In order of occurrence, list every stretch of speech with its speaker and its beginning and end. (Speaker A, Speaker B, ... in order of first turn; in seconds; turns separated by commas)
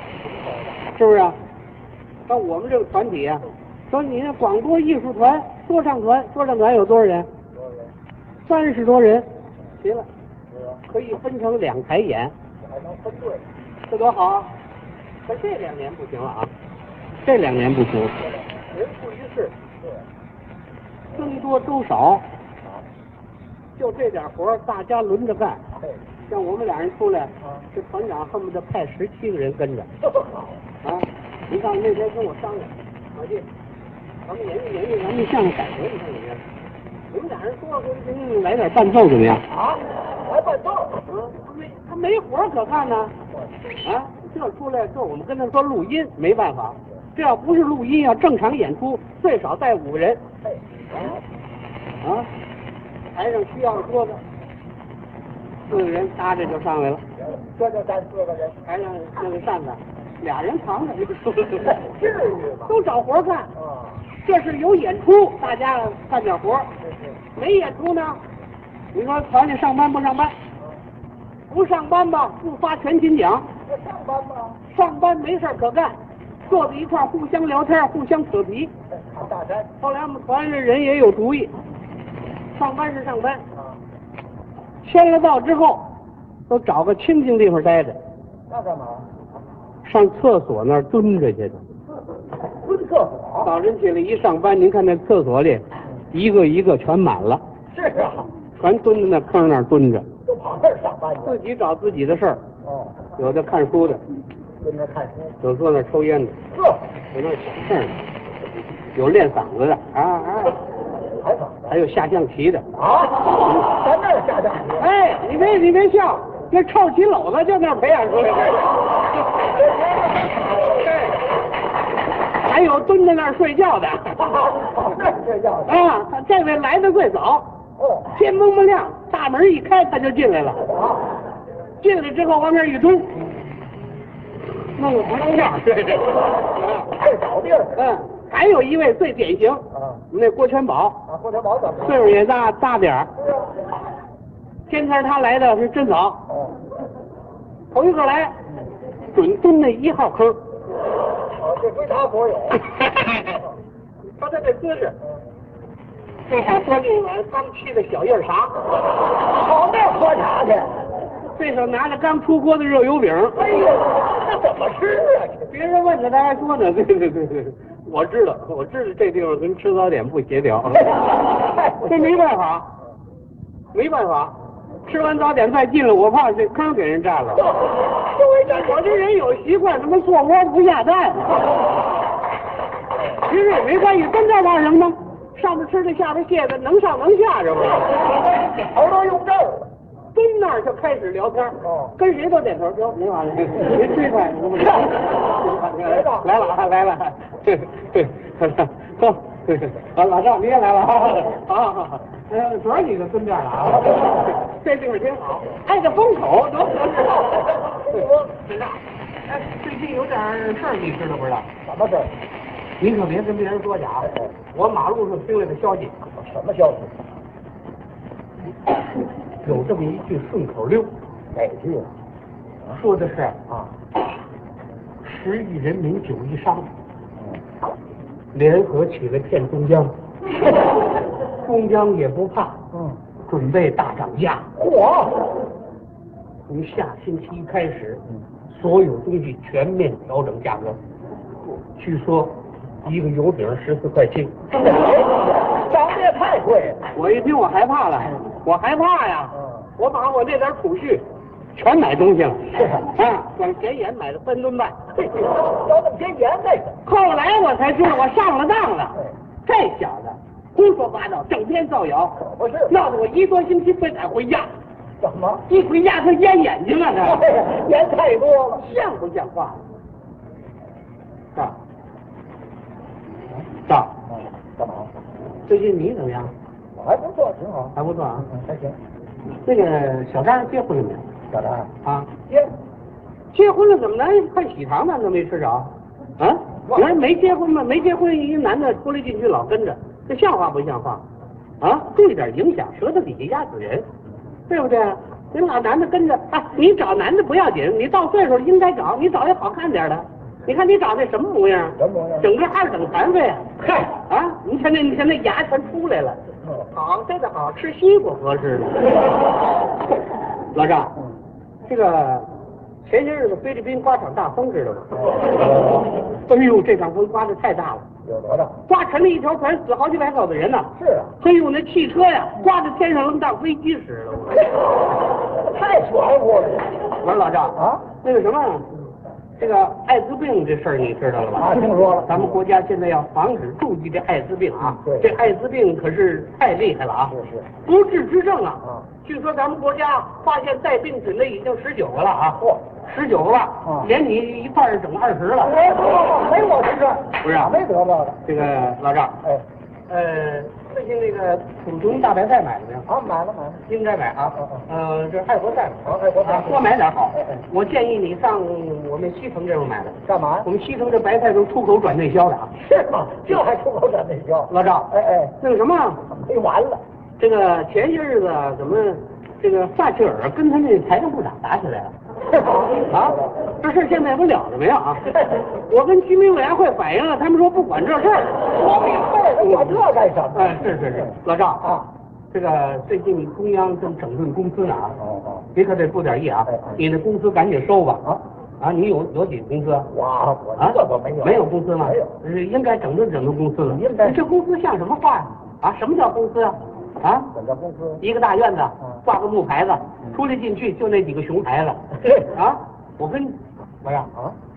Speaker A: 0.9-1.4, Speaker A: 2.3-7.3, Speaker B: 7.5-7.9, Speaker A: 8.4-9.3, Speaker A: 9.8-10.1, Speaker B: 10.5-10.8, Speaker A: 10.8-12.3, Speaker B: 12.6-13.4, Speaker A: 13.9-14.5, Speaker A: 15.2-16.5, Speaker A: 17.2-19.6, Speaker A: 21.1-22.3, Speaker A: 23.8-25.6, Speaker A: 26.3-29.9, Speaker B: 30.0-30.6, Speaker A: 30.8-33.5, Speaker A: 34.2-36.4, Speaker A: 37.1-39.5, Speaker B: 39.5-41.0, Speaker A: 41.0-43.1, Speaker A: 43.8-50.2, Speaker B: 50.5-51.2, Speaker A: 52.0-52.3, Speaker A: 53.1-54.2, Speaker A: 55.7-57.0, Speaker B: 57.3-58.6, Speaker A: 58.6-61.9, Speaker B: 61.7-62.7, Speaker A: 62.6-63.5, Speaker B: 63.6-64.0, Speaker A: 64.1-66.7, Speaker B: 66.8-67.2, Speaker A: 67.3-68.2, Speaker A: 68.9-70.3, Speaker A: 71.5-73.5, Speaker B: 73.7-74.6, Speaker A: 74.7-78.7, Speaker B: 78.9-79.7, Speaker A: 79.8-81.5, Speaker A: 82.5-83.4, Speaker A: 84.8-85.9, Speaker A: 86.5-88.0, Speaker B: 88.5-89.1, Speaker A: 89.8-91.6, Speaker B: 92.5-93.5, Speaker A: 93.4-97.4, Speaker B: 97.7-98.3, Speaker A: 98.5-100.1, Speaker B: 100.2-101.4, Speaker A: 101.2-102.4, Speaker B: 102.6-103.0, Speaker A: 103.2-104.0, Speaker B: 104.6-105.3, Speaker A: 105.4-106.4, Speaker B: 106.5-106.9, Speaker A: 107.1-108.0, Speaker A: 108.9-110.6, Speaker B: 111.1-111.7, Speaker A: 111.7-112.7, Speaker B: 112.8-114.9, Speaker A: 114.8-119.5, Speaker B: 119.5-120.8, Speaker A: 120.6-121.2, Speaker A: 122.4-124.3, Speaker B: 124.2-125.8, Speaker A: 125.7-127.5, Speaker B: 127.8-128.1, Speaker A: 128.1-130.7, Speaker B: 130.7-131.1, Speaker A: 131.8-133.2, Speaker A: 134.6-136.9, Speaker B: 136.9-137.8, Speaker A: 137.7-141.0, Speaker B: 139.8-140.0, Speaker B: 141.1-142.0, Speaker A: 141.8-143.1, Speaker B: 143.2-143.5, Speaker A: 144.7-146.2, Speaker B: 146.3-146.6, Speaker A: 147.7-148.4, Speaker A: 149.1-150.4, Speaker B: 151.3-152.6, Speaker A: 152.7-153.3, Speaker A: 154.2-155.0, Speaker A: 156.3-158.7, Speaker B: 159.2-160.8, Speaker A: 161.3-163.5, Speaker B: 163.4-165.5, Speaker A: 165.5-172.7, Speaker B: 170.9-172.2, Speaker A: 173.7-177.6, Speaker B: 177.4-178.9, Speaker A: 178.2-181.4, Speaker A: 183.2-188.0, Speaker B: 188.4-189.7, Speaker A: 190.1-211.5, Speaker B: 191.6-191.9, Speaker B: 195.8-196.3, Speaker B: 207.3-208.4, Speaker B: 211.6-212.1, Speaker A: 212.8-216.0, Speaker B: 216.2-216.9, Speaker A: 219.4-220.9, Speaker B: 221.3-221.9, Speaker A: 222.7-223.4, Speaker A: 225.0-226.7, Speaker A: 228.3-229.9, Speaker A: 231.4-232.6, Speaker B: 232.7-233.0, Speaker A: 233.3-234.5, Speaker B: 234.6-235.3, Speaker A: 236.5-240.8, Speaker A: 241.7-244.5, Speaker B: 244.6-246.8, Speaker A: 246.9-251.0, Speaker B: 249.3-249.7, Speaker A: 251.5-254.9, Speaker B: 255.0-256.8, Speaker A: 256.8-264.5, Speaker B: 262.2-262.7, Speaker B: 265.0-265.4, Speaker A: 265.5-267.3, Speaker B: 267.0-268.6, Speaker A: 268.6-269.6, Speaker A: 273.7-274.0, Speaker B: 274.1-274.9, Speaker A: 275.5-276.3, Speaker B: 276.8-278.8, Speaker A: 277.7-278.3, Speaker A: 279.4-281.1, Speaker B: 281.3-281.7, Speaker A: 281.8-282.1, Speaker B: 282.3-282.5, Speaker A: 283.3-291.0, Speaker B: 286.7-287.1, Speaker A: 291.6-293.9, Speaker A: 294.5-309.0, Speaker B: 301.8-302.3, Speaker B: 303.6-303.9, Speaker A: 310.5-310.9, Speaker A: 311.6-312.3, Speaker A: 312.8-315.1, Speaker B: 315.0-315.9, Speaker A: 316.1-317.9, Speaker B: 318.0-318.6, Speaker A: 318.7-324.6, Speaker B: 320.8-321.1, Speaker B: 325.3-326.7, Speaker A: 327.0-328.8, Speaker B: 327.6-327.8, Speaker A: 329.4-345.7, Speaker B: 331.4-332.2, Speaker B: 334.7-335.1, Speaker B: 337.1-337.5, Speaker B: 345.5-348.2, Speaker A: 347.1-347.6, Speaker A: 348.2-349.2, Speaker A: 349.9-352.9, Speaker B: 352.9-353.6, Speaker A: 353.6-362.5, Speaker B: 355.9-357.4, Speaker B: 360.1-360.5, Speaker B: 362.6-365.4, Speaker A: 364.5-366.1, Speaker B: 366.1-366.8, Speaker A: 367.2-371.9, Speaker B: 372.3-373.3, Speaker A: 372.9-381.7, Speaker B: 375.1-375.4, Speaker B: 378.6-381.9, Speaker A: 382.3-385.0, Speaker B: 385.0-385.4, Speaker A: 385.5-389.9, Speaker B: 389.9-392.1, Speaker A: 390.6-397.3, Speaker B: 393.7-394.2, Speaker B: 397.3-398.0, Speaker A: 398.0-404.1